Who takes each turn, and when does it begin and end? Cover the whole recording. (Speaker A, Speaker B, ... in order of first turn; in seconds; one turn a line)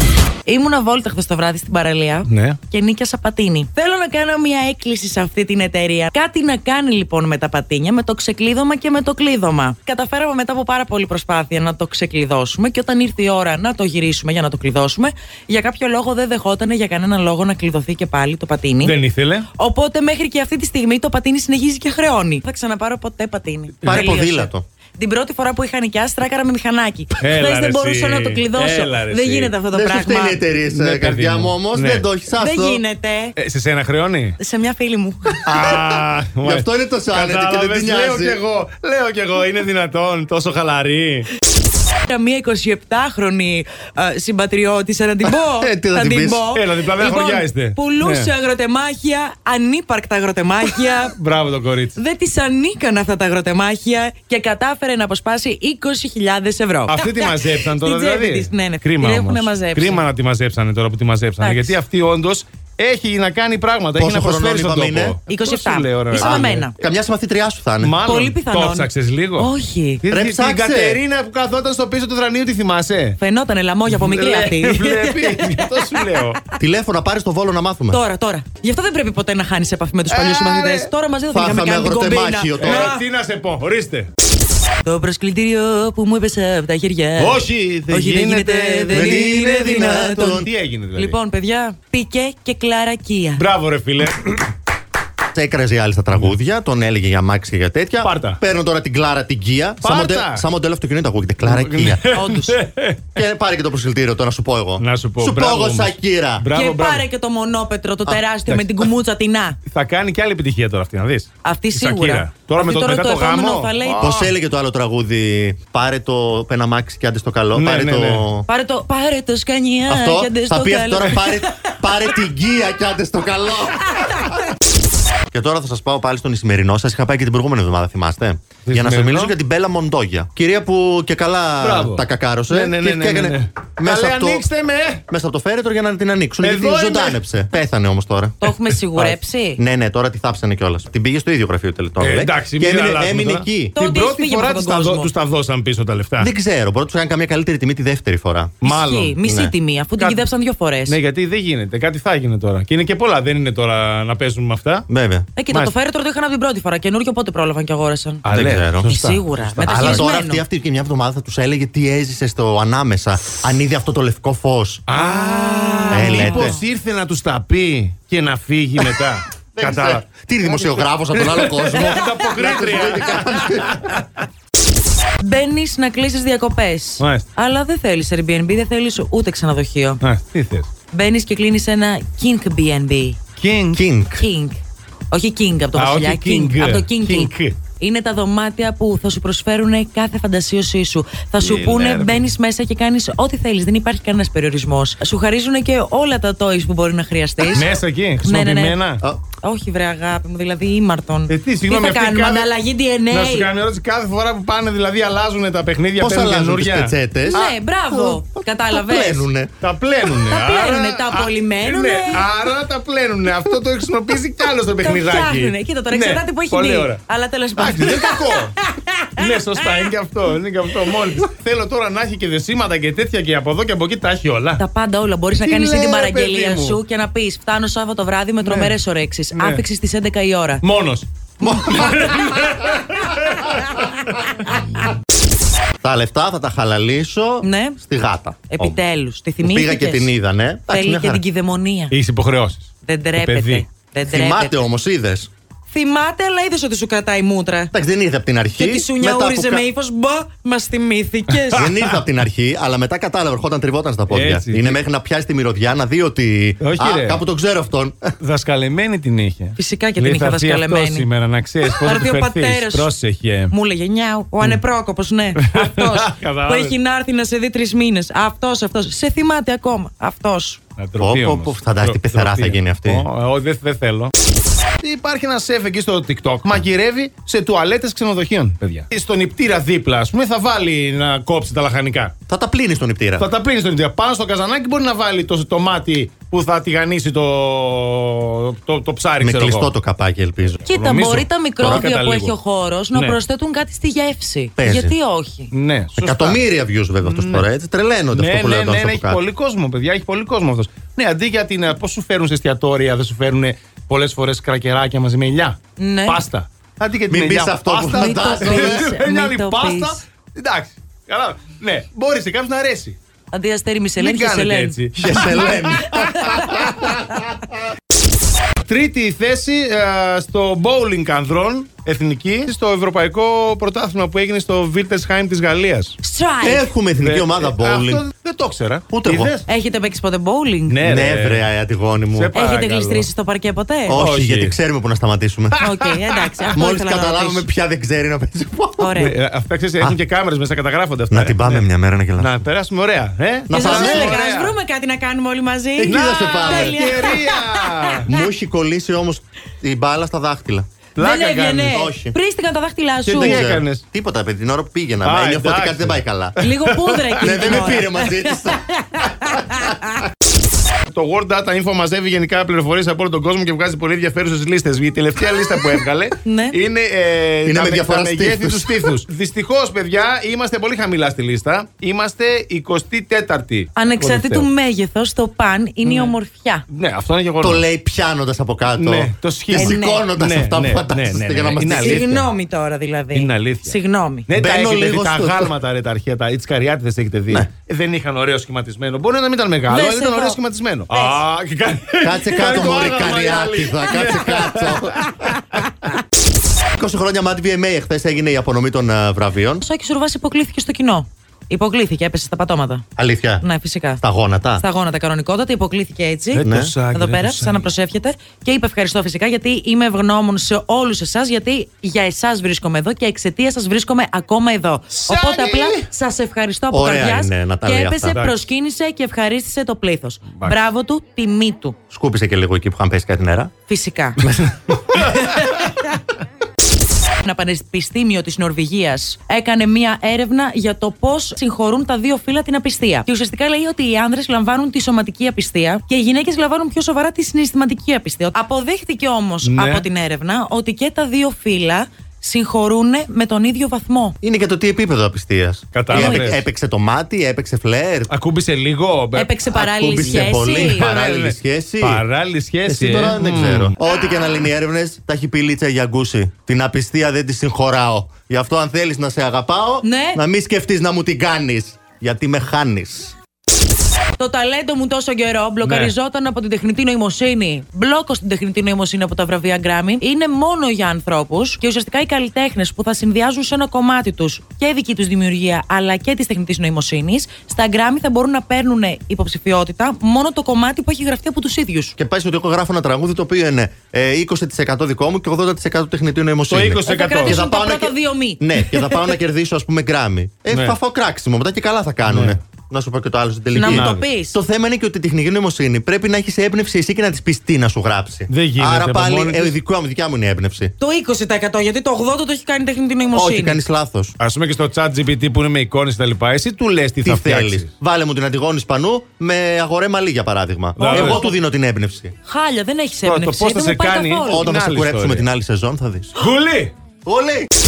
Speaker A: 0.5-19.0
Speaker B: 2.3-2.6
Speaker B: 18.8-19.5
Speaker A: 19.6-30.4
Speaker C: 23.8-24.6
Speaker B: 27.2-29.6
Speaker C: 29.7-32.8
Speaker B: 30.7-32.1
Speaker A: 32.4-33.4
Speaker B: 33.4-34.4
Speaker A: 34.4-35.5
Speaker B: 35.5-41.3
Speaker C: 35.5-38.4
Speaker A: 42.0-51.1
Speaker C: 45.6-46.5
Speaker B: 46.5-48.3
Speaker B: 50.6-52.0
Speaker A: 52.0-60.0
Speaker B: 56.9-66.7
Speaker A: 61.4-61.8
Speaker C: 64.0-65.2
Speaker A: 65.3-66.8
Speaker C: 66.1-68.0
Speaker B: 67.8-69.5
Speaker A: 68.0-70.0
Speaker B: 70.0-73.2
Speaker C: 70.1-71.0
Speaker A: 73.2-76.5
Speaker B: 73.9-76.4
Speaker C: 76.6-78.0
Speaker A: 77.9-83.0
Speaker B: 80.1-80.9
Speaker C: 81.3-82.9
Speaker B: 82.6-84.1
Speaker A: 84.8-90.4
Speaker B: 87.2-91.2
Speaker C: 88.9-90.5
Speaker A: 91.0-93.4
Speaker B: 93.4-94.5
Speaker C: 95.3-102.1
Speaker B: 98.0-98.4
Speaker B: 99.8-100.5
Speaker B: 101.4-103.1
Speaker A: 102.1-102.6
Speaker C: 103.2-106.5
Speaker B: 104.8-107.1
Speaker A: 106.5-109.6
Speaker B: 108.5-108.9
Speaker B: 109.7-114.2
Speaker A: 111.4-114.3
Speaker C: 114.0-118.5
Speaker B: 117.5-118.3
Speaker A: 118.5-121.8
Speaker C: 119.9-124.2
Speaker A: 123.9-124.4
Speaker C: 125.3-134.5
Speaker B: 128.7-129.3
Speaker B: 131.6-135.0
Speaker C: 135.1-138.4
Speaker B: 136.4-137.2
Speaker A: 138.4-139.6
Speaker B: 138.4-139.2
Speaker C: 139.6-143.8
Speaker B: 142.0-146.3
Speaker A: 143.8-145.1
Speaker C: 146.2-148.6
Speaker B: 148.6-149.2
Speaker A: 148.6-151.0
Speaker C: 149.2-149.5
Speaker B: 150.0-150.3
Speaker B: 150.9-154.9
Speaker C: 154.9-155.3
Speaker A: 155.4-158.2
Speaker B: 158.2-160.1
Speaker C: 158.3-158.9
Speaker A: 158.8-160.4
Speaker C: 159.7-164.8
Speaker B: 164.9-174.1
Speaker A: 165.0-166.6
Speaker C: 165.9-166.6
Speaker C: 169.6-173.9
Speaker A: 175.2-180.0
Speaker B: 177.0-177.3
Speaker B: 180.0-180.7
Speaker A: 180.9-183.2
Speaker B: 183.4-183.8
Speaker C: 183.7-184.3
Speaker A: 184.2-184.6
Speaker A: 185.1-198.8
Speaker B: 185.8-187.6
Speaker B: 191.4-192.3
Speaker B: 197.4-199.0
Speaker A: 199.4-203.5
Speaker B: 201.3-202.5
Speaker B: 203.1-207.6
Speaker C: 206.0-209.5
Speaker A: 207.3-209.3
Speaker B: 209.6-217.0
Speaker A: 210.2-212.3
Speaker A: 214.8-219.9
Speaker B: 217.6-224.6
Speaker A: 224.6-230.6
Speaker B: 225.3-226.8
Speaker B: 228.4-228.8
Speaker B: 229.3-229.7
Speaker B: 230.6-234.8
Speaker C: 231.4-232.4
Speaker A: 231.4-232.0
Speaker A: 233.5-233.9
Speaker C: 235.8-238.8
Speaker A: 237.4-237.8
Speaker A: 238.5-240.1
Speaker C: 239.4-241.2
Speaker A: 240.7-241.9
Speaker B: 241.9-243.7
Speaker A: 242.8-244.6
Speaker C: 244.1-245.3
Speaker A: 245.7-247.7
Speaker C: 247.7-249.7
Speaker A: 248.6-251.7
Speaker B: 251.3-252.0
Speaker C: 251.6-258.1
Speaker B: 254.1-254.8
Speaker B: 256.6-257.3
Speaker B: 258.2-263.5
Speaker A: 259.6-261.1
Speaker A: 261.8-262.9
Speaker A: 263.5-270.6
Speaker B: 265.4-266.8
Speaker B: 270.8-274.1
Speaker C: 271.0-273.1
Speaker B: 274.8-282.1
Speaker C: 282.3-283.3
Speaker B: 283.2-289.7
Speaker C: 289.2-290.7
Speaker B: 290.7-292.4
Speaker A: 290.7-295.5
Speaker C: 294.6-295.0
Speaker B: 295.5-296.4
Speaker C: 296.0-299.2
Speaker B: 297.0-297.5
Speaker B: 298.1-313.0
Speaker A: 305.8-306.2
Speaker C: 307.1-308.9
Speaker A: 307.9-310.0
Speaker A: 313.3-314.8
Speaker B: 314.0-317.0
Speaker C: 314.9-317.2
Speaker A: 316.2-316.5
Speaker B: 318.6-326.0
Speaker A: 326.0-326.7
Speaker C: 326.4-328.1
Speaker B: 327.0-329.5
Speaker C: 328.9-329.4
Speaker A: 329.5-330.8
Speaker B: 330.7-331.5
Speaker C: 330.8-332.4
Speaker B: 332.1-333.1
Speaker A: 332.3-334.1
Speaker C: 333.9-335.6
Speaker B: 333.9-334.6
Speaker A: 335.6-337.5
Speaker C: 336.5-339.0
Speaker A: 338.8-339.1
Speaker B: 339.0-344.6
Speaker C: 341.1-342.4
Speaker C: 343.5-344.2
Speaker A: 343.5-348.3
Speaker C: 345.8-346.8
Speaker B: 345.9-348.1
Speaker C: 348.1-350.7
Speaker B: 351.0-351.8
Speaker A: 351.0-353.4
Speaker C: 351.7-352.2
Speaker B: 353.1-353.8
Speaker C: 353.1-356.4
Speaker B: 355.0-357.7
Speaker A: 356.4-360.0
Speaker C: 357.2-358.7
Speaker B: 360.9-374.5
Speaker A: 366.2-366.6
Speaker C: 367.4-368.9
Speaker A: 373.8-376.6
Speaker B: 375.8-376.1
Speaker B: 376.7-377.6
Speaker C: 377.4-382.2
Speaker B: 378.8-382.3
Speaker A: 379.5-380.1
Speaker A: 381.7-384.3
Speaker B: 383.1-395.3
Speaker C: 384.4-385.6
Speaker A: 389.7-391.2
Speaker C: 392.0-395.1
Speaker C: 396.8-399.6
Speaker A: 399.6-402.9
Speaker C: 403.0-403.4
Speaker A: 403.4-404.0
Speaker C: 404.0-404.6
Speaker A: 404.6-421.8
Speaker B: 406.3-407.7
Speaker C: 406.4-406.7
Speaker B: 414.9-415.9
Speaker C: 416.7-418.2
Speaker B: 418.1-418.4
Speaker C: 421.9-423.5
Speaker A: 423.7-424.3
Speaker C: 424.2-424.7
Speaker B: 425.0-425.5
Speaker A: 425.1-425.8
Speaker A: 427.2-444.2
Speaker B: 439.4-439.9
Speaker C: 444.2-448.1
Speaker B: 445.7-446.5
Speaker A: 445.9-446.4
Speaker B: 448.1-449.4
Speaker A: 449.1-450.9
Speaker C: 449.5-452.0
Speaker B: 450.0-453.8
Speaker C: 452.6-463.1
Speaker A: 459.8-460.2
Speaker A: 464.2-482.0
Speaker B: 465.6-465.9
Speaker C: 482.0-500.7
Speaker B: 486.5-487.4
Speaker A: 486.9-489.1
Speaker B: 490.5-490.8
Speaker B: 492.1-492.4
Speaker A: 493.5-494.4
Speaker B: 493.7-494.1
Speaker B: 498.3-499.6
Speaker A: 500.8-503.6
Speaker C: 503.1-504.1
Speaker B: 504.2-507.7
Speaker C: 507.0-512.1
Speaker A: 510.8-511.3
Speaker B: 510.8-511.3
Speaker A: 512.3-514.5
Speaker B: 513.0-515.3
Speaker C: 514.3-516.1
Speaker B: 516.1-516.7
Speaker C: 517.0-517.5